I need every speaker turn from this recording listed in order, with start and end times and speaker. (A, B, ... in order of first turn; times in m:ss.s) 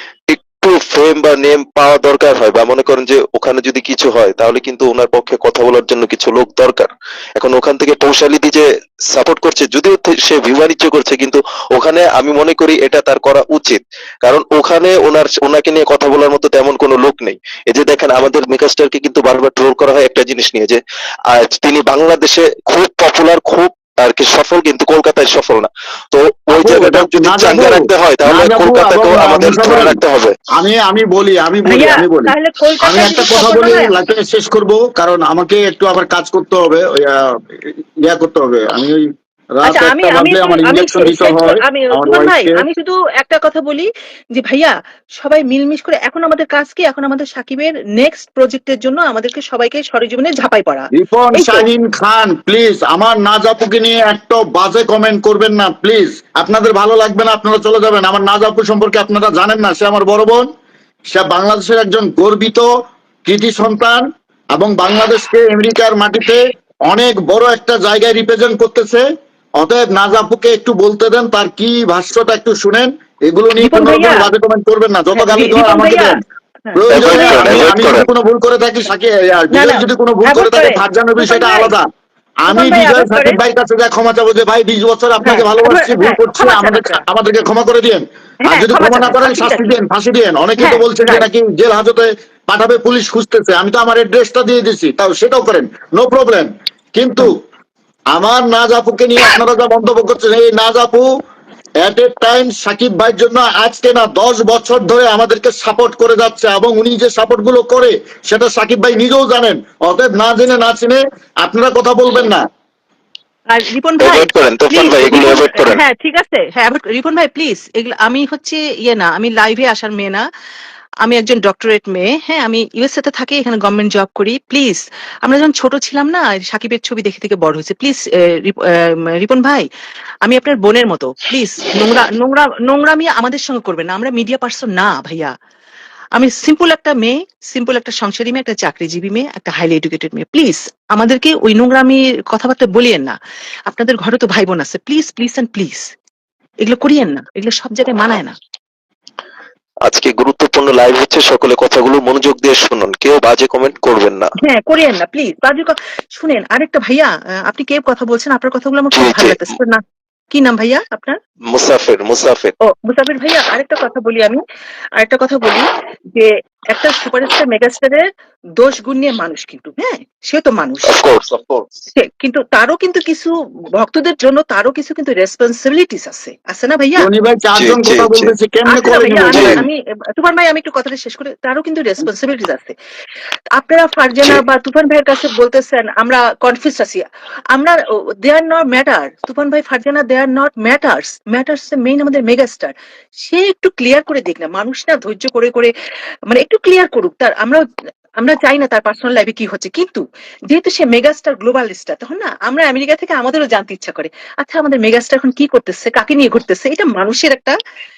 0:00.3-0:30.3 A
0:26.6-0:30.0 B
0:30.5-0:39.0 B
0:31.7-0:33.9 C
0:39.6-0:42.6 B
0:39.6-0:51.7 C
0:50.9-1:00.5 B
1:01.1-1:02.7 B
1:03.2-1:09.0 B
1:09.6-1:16.2 B
1:13.6-1:14.3 C
1:15.2-1:17.5 C
1:16.8-1:21.8 B
1:16.9-1:18.1 A
1:19.5-1:21.7 C
1:22.4-1:37.4 B
1:22.5-1:23.4 C
1:25.2-1:27.0 C
1:28.4-1:29.7 C
1:30.6-1:31.2 C
1:38.1-1:41.1 B
1:41.8-1:52.4 B
1:53.5-2:00.2 C
1:54.0-1:55.8 A
2:01.0-2:09.6 C
2:10.2-2:15.3 C
2:16.2-2:23.2 C
2:23.7-2:25.9 C
2:26.6-2:28.4 C
2:29.9-2:34.3 A
2:34.4-2:41.2 C
2:38.9-2:39.4 A
2:41.5-2:42.5 A
2:42.7-2:44.4 C
2:45.0-2:48.1 C
2:48.6-2:51.0 C
2:50.9-2:51.7 A
2:52.0-2:57.1 C
2:57.0-2:59.6 B
2:57.6-2:58.3 A
2:58.7-3:02.7 C
2:59.3-2:59.6 A
3:03.5-3:12.7 C
3:13.2-3:15.7 C
3:16.3-3:17.6 C
3:18.2-3:27.6 C